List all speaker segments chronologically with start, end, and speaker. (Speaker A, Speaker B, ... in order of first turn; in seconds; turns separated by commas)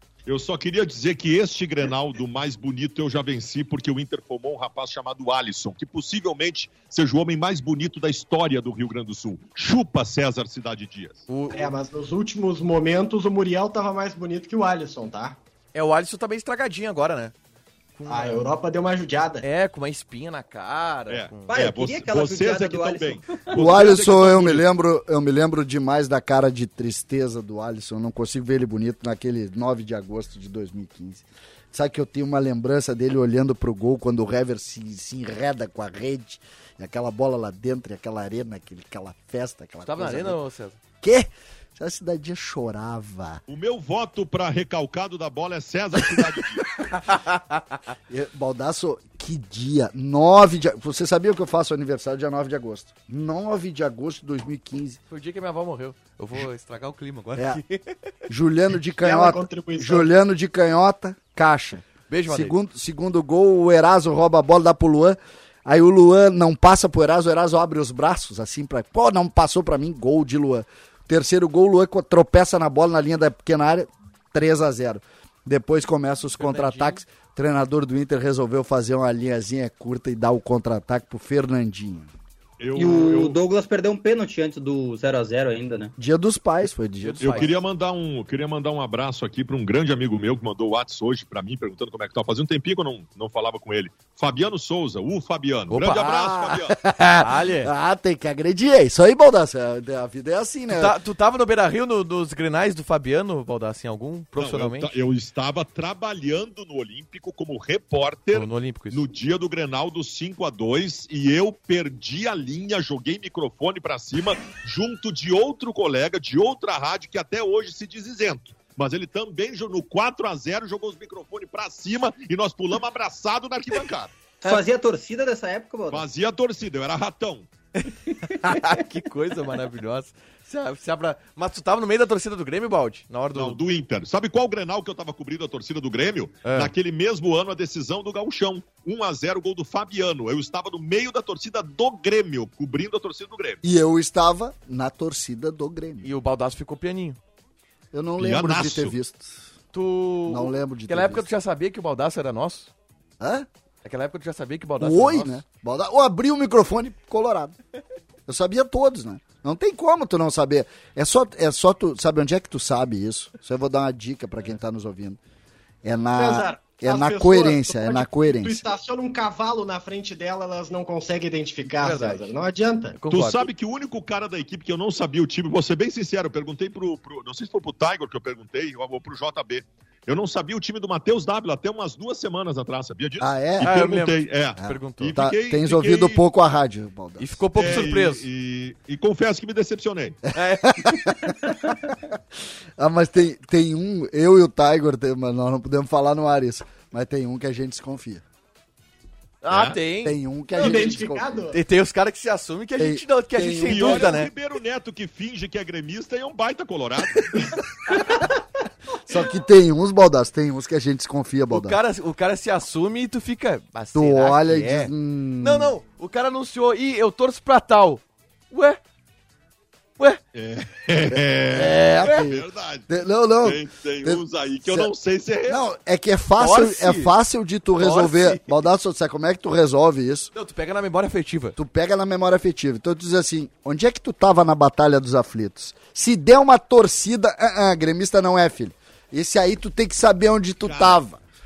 Speaker A: 0.3-11.2, Speaker B: 11.3-11.7, Speaker C: 11.5-15.4, Speaker B: 15.7-17.3, Speaker B: 17.9-18.5, Speaker C: 18.1-19.4, Speaker B: 19.4-21.5, Speaker A: 21.1-24.6, Speaker D: 21.5-23.5, Speaker E: 23.5-40.4, Speaker B: 39.9-40.8, Speaker E: 41.0-43.4, Speaker A: 43.5-46.8, Speaker B: 46.9-47.8, Speaker E: 48.1-55.0, Speaker B: 55.1-58.0, Speaker E: 57.4-57.6, Speaker E: 58.3-82.1, Speaker C: 59.0-60.1, Speaker B: 62.1-62.6, Speaker B: 76.4-77.0, Speaker A: 82.6-83.4, Speaker D: 82.8-85.9, Speaker E: 86.0-87.5, Speaker B: 87.0-87.6, Speaker A: 87.2-96.8, Speaker B: 95.7-96.3, Speaker E: 96.0-100.9, Speaker B: 97.2-97.7, Speaker B: 100.7-104.9, Speaker A: 104.4-124.1, Speaker B: 108.3-109.0, Speaker D: 124.4-126.0, Speaker A: 125.9-127.5, Speaker B: 127.8-133.6, Speaker A: 133.3-143.6, Speaker B: 136.4-136.7, Speaker E: 143.6-146.1, Speaker B: 146.0-147.2, Speaker E: 147.9-149.4, Speaker A: 148.2-149.0, Speaker B: 149.7-152.7, Speaker E: 150.3-151.2, Speaker E: 153.2-153.5, Speaker B: 153.8-155.4, Speaker E: 154.8-157.6, Speaker E: 158.3-165.2, Speaker E: 165.8-168.6, Speaker C: 166.1-173.0, Speaker B: 171.8-172.4, Speaker B: 172.9-173.5, Speaker A: 173.1-186.2, Speaker E: 183.2-183.8, Speaker B: 183.6-185.2, Speaker E: 184.6-187.8, Speaker B: 187.2-188.2, Speaker A: 187.6-190.2, Speaker B: 190.3-191.1, Speaker E: 190.6-191.2, Speaker E: 192.8-198.2, Speaker B: 199.4-200.9, Speaker A: 199.5-199.8, Speaker E: 200.0-201.5, Speaker C: 200.6-201.6, Speaker B: 201.5-204.3, Speaker E: 202.8-204.2, Speaker A: 203.7-207.6, Speaker E: 209.1-211.8, Speaker B: 211.5-218.8, Speaker E: 213.9-215.7, Speaker A: 220.3-222.8, Speaker E: 221.5-224.9, Speaker B: 222.0-222.3, Speaker A: 223.4-225.6, Speaker E: 225.4-230.3, Speaker B: 226.4-227.1, Speaker B: 227.8-228.5, Speaker B: 230.3-231.6, Speaker E: 231.6-241.2, Speaker A: 240.6-241.0